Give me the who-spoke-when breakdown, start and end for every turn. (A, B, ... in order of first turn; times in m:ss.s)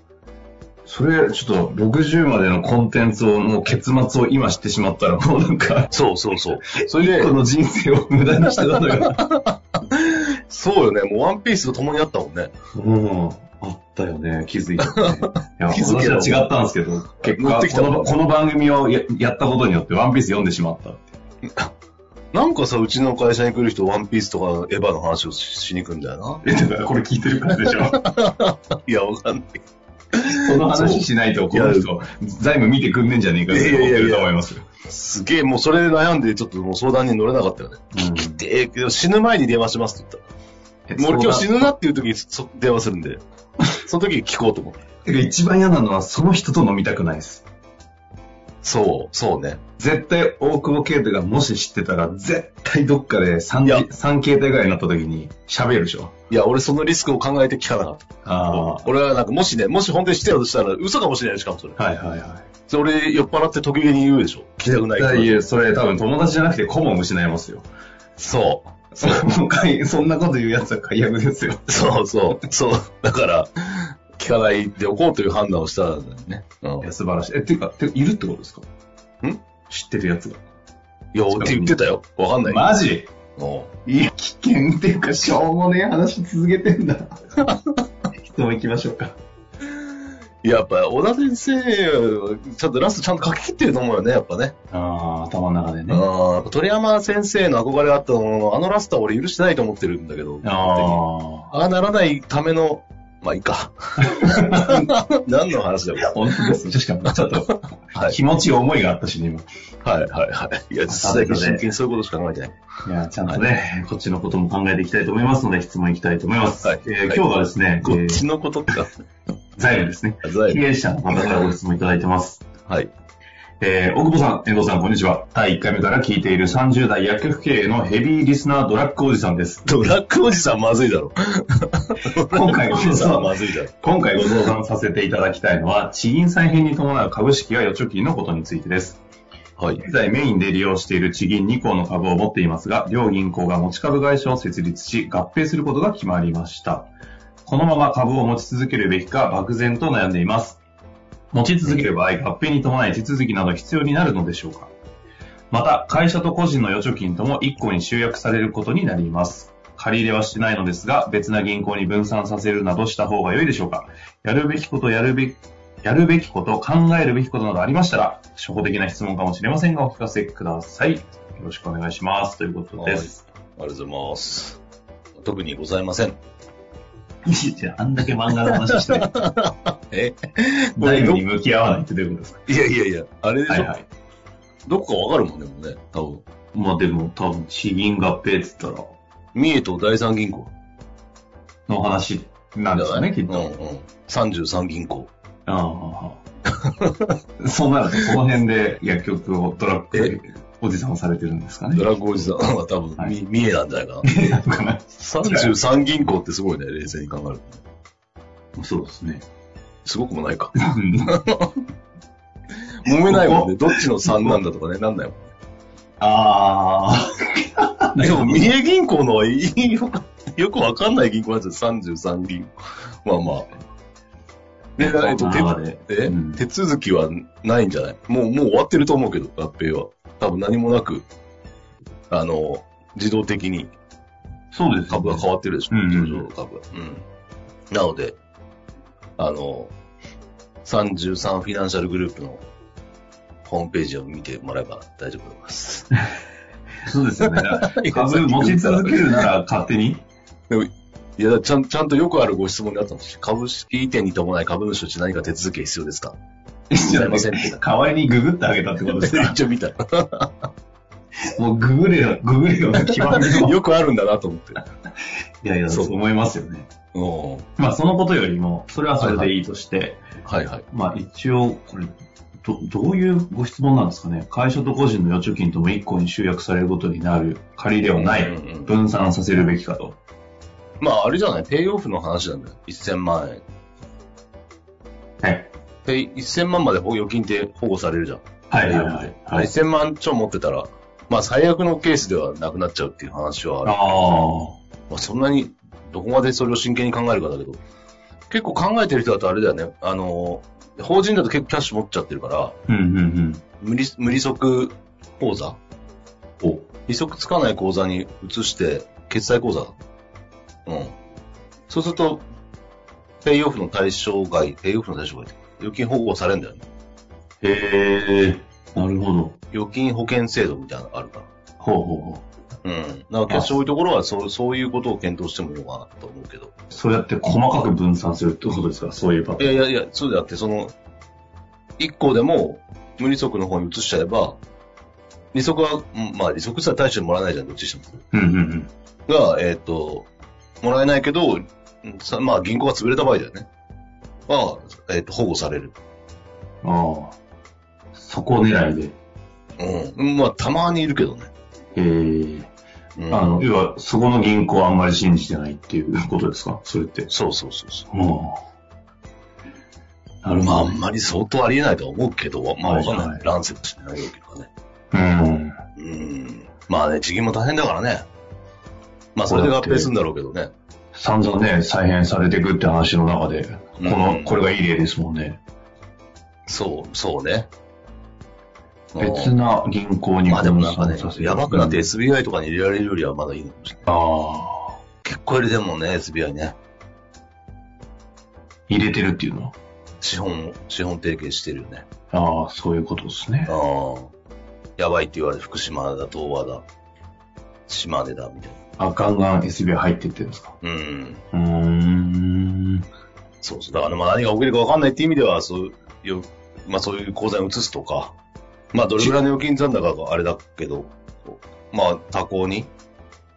0:00.8-0:06.0 A
0:05.9-0:07.4 B
0:06.7-0:09.2 A
0:08.7-0:12.5 B
0:12.7-0:21.1 A
0:14.8-0:16.5 B
0:17.2-0:18.2 B
0:22.3-0:26.4 B
0:26.4-0:28.0 A
0:27.5-0:29.6 B
0:30.1-0:31.9 B
0:30.3-0:34.7 A
0:33.5-0:34.3 B
0:34.9-0:40.3 B
0:37.9-0:38.4 A
0:40.9-0:41.7 A
0:41.0-0:43.2 B
0:43.8-0:44.8 B
0:45.0-0:47.5 A
0:48.6-0:49.6 B
0:49.8-0:56.2 A
0:56.3-1:01.8 B
0:58.2-0:58.9 A
1:01.8-1:02.5 A
1:02.7-1:05.4 B
1:04.6-1:07.7 A
1:08.2-1:09.2 B
1:09.0-1:11.8 A
1:11.7-1:16.9 B
1:16.8-1:18.7 A
1:19.7-1:20.4 A
1:21.1-1:22.8 B
1:21.3-1:21.8 A
1:22.4-1:23.1 A
1:23.4-1:23.8 B
1:23.9-1:27.2 A
1:28.2-1:29.2 A
1:30.4-1:34.5 B
1:34.7-1:36.0 A
1:35.9-1:46.6 B
1:40.4-1:41.5 A
1:44.0-1:44.9 A
1:46.0-1:49.5 A
1:47.2-1:48.2 B
1:49.8-1:52.5 B
1:50.9-1:51.6 A
1:52.8-1:58.2 A
1:56.6-1:57.2 B
1:57.8-1:58.9 B
1:59.6-2:02.5 A
2:00.2-2:01.5 B
2:03.6-2:09.7 A
2:09.7-2:14.5 B
2:12.3-2:13.3 A
2:13.8-2:19.0 A
2:19.6-2:19.8 B
2:19.8-2:26.9 A
2:27.4-2:30.6 A
2:31.3-2:34.7 A
2:35.5-2:53.2 A
2:52.8-2:54.6 B
2:55.2-2:56.2 B
2:57.2-2:59.1 A
2:58.3-3:01.2 B
3:00.8-3:02.4 A
3:02.5-3:03.7 B
3:03.5-3:03.9 A
3:04.7-3:06.2 B
3:06.5-3:09.0 A
3:09.4-3:10.5 B
3:11.7-3:13.5 A
3:12.7-3:15.1 B
3:15.5-3:16.2 A
3:16.8-3:17.1 B
3:17.4-3:21.9 A
3:21.7-3:24.1 B
3:24.0-3:25.5 A
3:25.0-3:27.6 B
3:28.6-3:29.3 A
3:29.8-3:31.6 B
3:30.6-3:31.1 A
3:32.8-3:35.3 B
3:32.9-3:34.4 A
3:36.0-3:38.5 A
3:38.0-3:42.5 B
3:43.0-3:43.5 B
3:44.8-3:51.1 B
3:44.8-3:46.4 A
3:52.1-3:53.7 B
3:54.5-3:56.3 A
3:54.9-3:57.0 B
3:57.7-3:58.2 B
3:59.2-3:59.7 B
4:00.6-4:02.4 B
4:03.4-4:06.0 B
4:06.8-4:10.1 A
4:07.2-4:09.3 B
4:10.5-4:16.2 B
4:16.7-4:19.4 A
4:16.7-4:17.6 B
4:18.8-4:20.5 B
4:21.3-4:23.6 A
4:22.8-4:24.6 B
4:25.4-4:26.7 A
4:25.7-4:26.0 B
4:26.9-4:27.5 B
4:27.6-4:30.0 A
4:29.0-4:29.3 B
4:30.3-4:30.6 B
4:30.7-4:40.0 A
4:38.0-4:38.7 B
4:40.8-4:43.4 B
4:45.2-4:45.5 A
4:45.8-4:54.2 B
4:48.5-4:49.5 A
4:53.6-4:54.6 A
4:54.9-4:57.6 B
4:58.3-5:02.6 B
5:02.7-5:03.4 A
5:03.6-5:05.6 B
5:06.9-5:09.8 B
5:10.7-5:10.9 B
5:11.7-5:12.3 B
5:13.2-5:16.6 B
5:17.4-5:19.4 A
5:19.5-5:21.3 B
5:21.6-5:22.3 A
5:22.6-5:26.5 B
5:23.3-5:23.6 A
5:26.7-5:29.6 A
5:29.4-5:30.7 B
5:31.8-5:34.4 B
5:35.3-5:38.0 B
5:38.1-5:38.7 A
5:39.1-5:40.1 B
5:40.6-5:43.5 B
5:44.3-5:45.7 B
5:46.6-5:47.2 A
5:47.9-5:49.0 A
5:49.6-5:51.3 B
5:51.8-5:52.5 A
5:53.0-5:53.4 B
5:53.1-5:57.1 A
5:57.1-5:57.9 B
5:57.9-5:58.4 A
6:00.2-6:00.8 A
6:00.4-6:04.5 B
6:02.6-6:03.2 A
6:04.9-6:05.6 A
6:05.8-6:08.1 B
6:09.2-6:10.5 B
6:09.3-6:09.9 A
6:10.9-6:15.4 A
6:13.8-6:14.4 B
6:16.5-6:17.5 B
6:19.0-6:19.4 B
6:19.0-6:21.9 A
6:20.3-6:24.0 B
6:23.9-6:24.8 A
6:25.0-6:26.6 B
6:28.7-6:29.6 A
6:30.0-6:31.9 B
6:32.1-6:33.5 A
6:33.5-6:34.1 B
6:34.8-6:36.6 B
6:37.7-6:38.6 B
6:38.8-6:40.6 A
6:40.6-6:41.2 B
6:41.3-6:42.8 A
6:43.4-6:48.2 B
6:48.7-6:52.7 B